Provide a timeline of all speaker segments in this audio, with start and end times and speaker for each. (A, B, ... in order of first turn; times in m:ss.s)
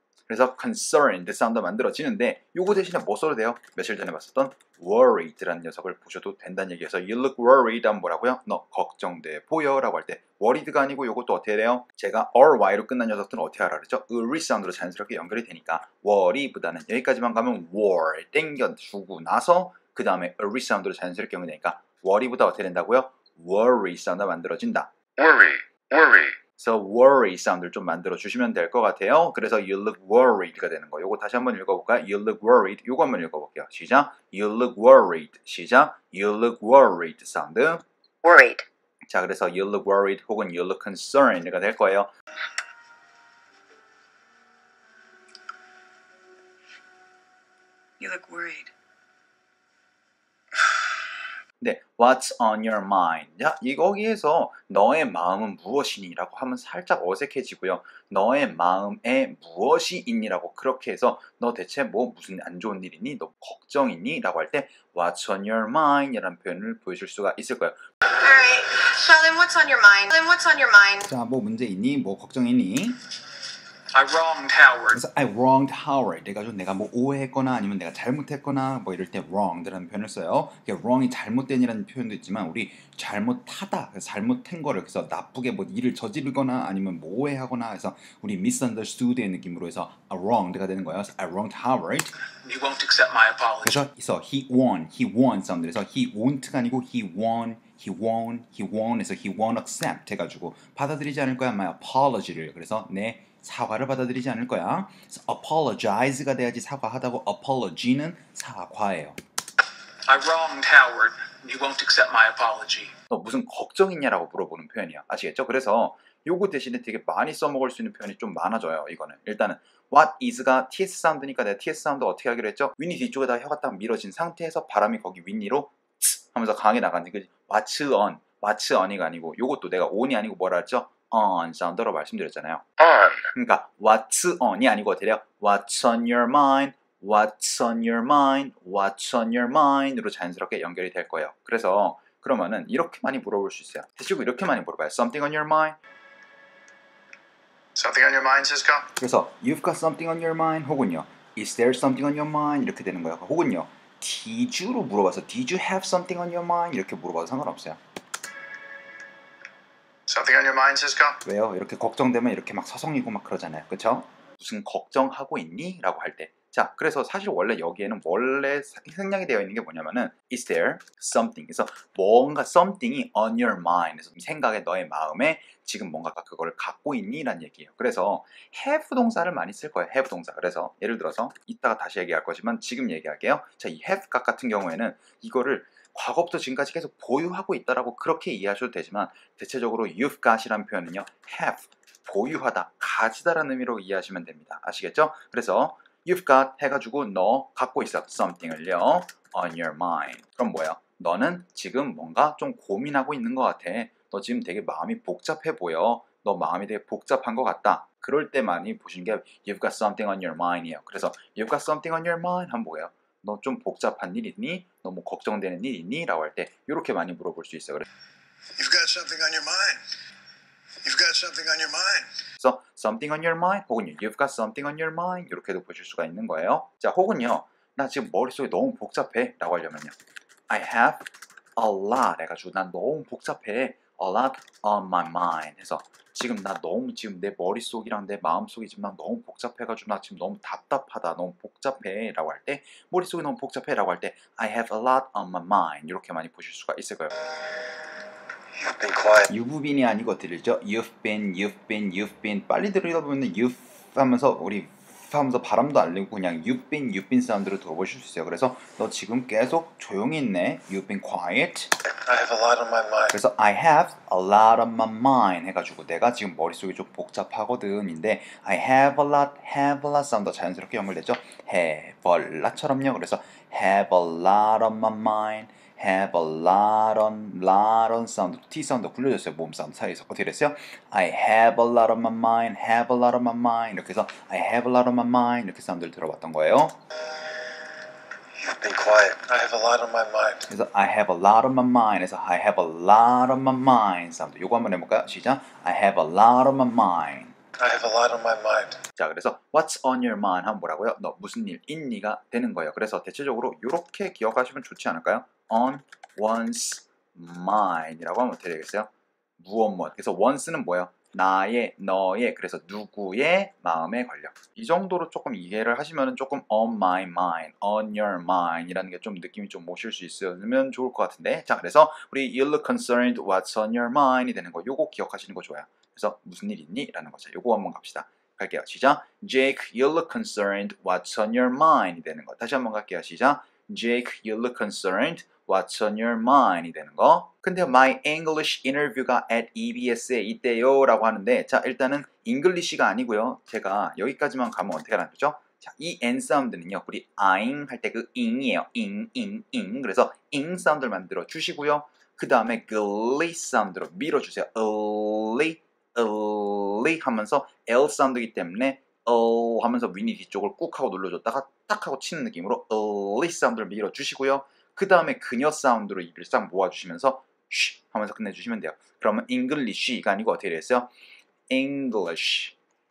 0:00.3-0:24.9 A
0:25.2-0:26.4 B
0:26.6-0:37.8 A
0:38.2-0:38.6 B
0:39.1-0:42.1 A
0:48.0-0:48.7 B
0:51.6-1:07.8 A
1:08.1-1:11.1 C
1:11.0-1:13.0 A
1:13.9-1:15.0 D
1:14.9-1:32.1 A
1:32.4-1:33.8 D
1:33.6-1:49.2 A
1:50.1-1:52.9 D
1:53.1-2:12.6 A
2:12.8-2:13.3 B
2:13.3-2:25.8 A
2:27.8-2:28.9 E
2:29.0-2:37.8 A
2:40.1-2:41.2 E
2:41.2-3:37.8 A
3:38.6-3:39.8 B
3:40.8-3:42.2 B
3:42.4-3:49.9 A
3:50.5-4:07.1 A
4:08.6-4:09.3 B
4:09.3-4:21.7 A
4:21.8-4:23.2 B
4:23.1-4:46.8 A
4:48.3-4:50.5 B
4:50.5-4:57.4 A
4:57.6-4:58.8 B
4:59.0-6:10.9 A
6:11.5-6:12.5 A